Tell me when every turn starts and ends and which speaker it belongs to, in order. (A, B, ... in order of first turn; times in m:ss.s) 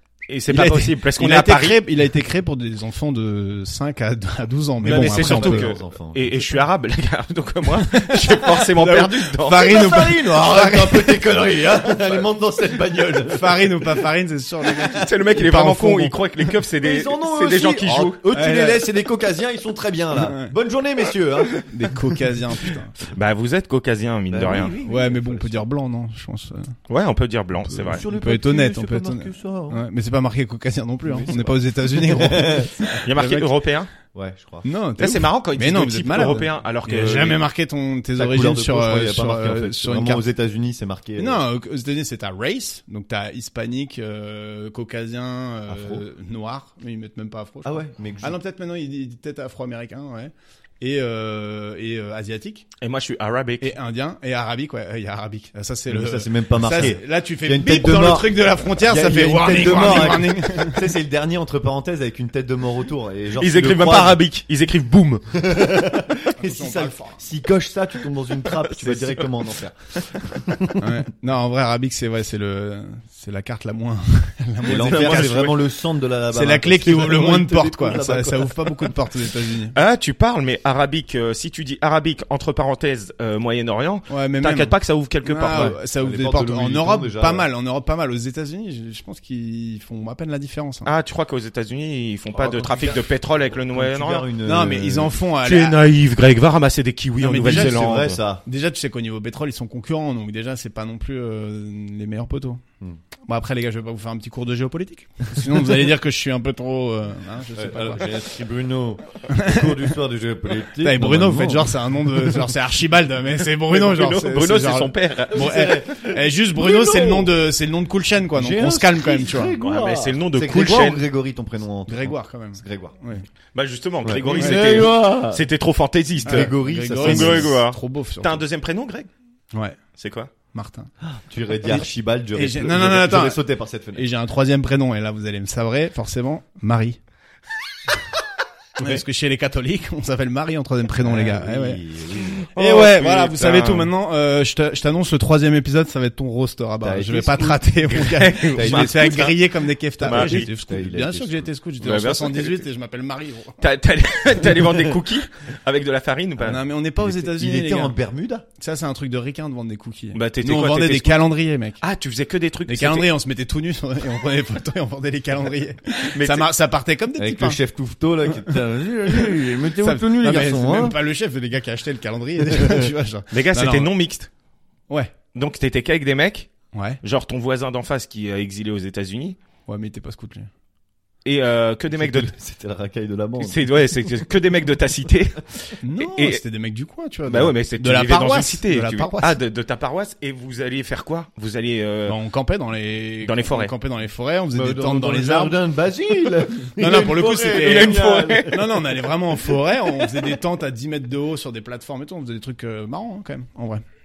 0:00.3-0:01.8 A
0:00.5-0:05.7 B
0:04.8-0:06.5 C
0:04.8-0:09.7 A
0:07.8-0:11.3 B
0:09.5-0:14.0 C
0:13.3-0:16.2 B
0:15.0-0:18.2 A
0:16.8-0:22.0 C
0:18.3-0:18.9 B
0:20.1-0:20.5 B
0:21.6-0:22.9 B
0:23.0-0:24.7 A
0:24.3-0:25.6 C
0:24.8-0:26.8 B
0:26.9-0:28.0 A
0:27.7-0:33.5 B
0:27.8-0:29.8 C
0:31.0-0:33.1 C
0:33.0-0:33.9 A
0:34.1-0:34.7 C
0:34.6-0:40.2 B
0:35.0-0:37.4 A
0:38.2-0:41.4 C
0:41.2-0:52.7 B
0:45.7-0:46.0 C
0:47.6-0:48.4 C
0:52.8-0:53.7 A
0:53.6-1:00.9 B
0:55.9-1:04.2 C
1:03.4-1:05.4 A
1:05.3-1:10.9 C
1:06.4-1:07.2 B
1:08.5-1:09.3 A
1:10.8-1:15.5 B
1:14.6-1:18.9 C
1:14.7-1:15.6 A
1:16.3-1:19.8 B
1:19.7-1:25.8 A
1:24.1-1:30.9 B
1:25.5-1:27.5 C
1:30.8-1:34.3 A
1:32.3-1:35.2 C
1:34.4-1:35.8 B
1:35.4-1:38.2 A
1:37.2-1:42.6 B
1:37.4-1:38.4 C
1:43.3-1:48.1 B
1:47.5-1:52.4 C
1:49.3-1:49.8 B
1:50.8-1:59.5 B
1:53.7-1:55.7 A
1:55.3-1:57.3 C
1:58.3-2:03.0 C
1:59.6-2:01.0 A
2:01.9-2:03.3 B
2:03.5-2:09.1 A
2:04.0-2:05.4 C
2:04.4-2:04.9 B
2:06.2-2:08.4 B
2:06.2-2:07.6 C
2:09.5-2:09.8 B
2:10.0-2:10.3 A
2:10.5-2:10.9 B
2:11.0-2:14.1 C
2:12.4-2:13.4 B
2:14.0-2:17.0 B
2:18.8-2:21.8 B
2:21.0-2:22.5 C
2:22.4-2:23.9 A
2:22.5-2:33.6 B
2:26.8-2:27.7 C
2:27.9-2:29.4 A
2:28.5-2:29.3 C
2:30.0-2:30.5 A
2:30.0-2:31.5 C
2:31.8-2:32.7 A
2:33.6-2:36.6 A
2:36.4-2:38.0 B
2:37.0-2:38.5 C
2:38.6-2:41.8 B
2:40.1-2:41.2 A
2:41.8-2:43.1 A
2:42.7-2:47.6 B
2:46.1-2:46.5 A
2:47.2-2:51.0 C
2:48.3-2:53.9 B
2:52.5-2:52.9 C
2:53.3-2:54.3 A
2:55.4-2:56.5 A
2:56.7-2:57.0 B
2:57.0-2:59.4 A
2:59.7-3:00.5 B
3:01.2-3:02.3 A
3:01.9-3:03.9 C
3:03.4-3:06.4 A
3:05.8-3:09.4 B
3:07.3-3:12.2 A
3:12.1-3:15.6 B
3:13.2-3:13.7 A
3:14.5-3:18.8 C
3:16.8-3:23.8 B
3:17.5-3:18.6 A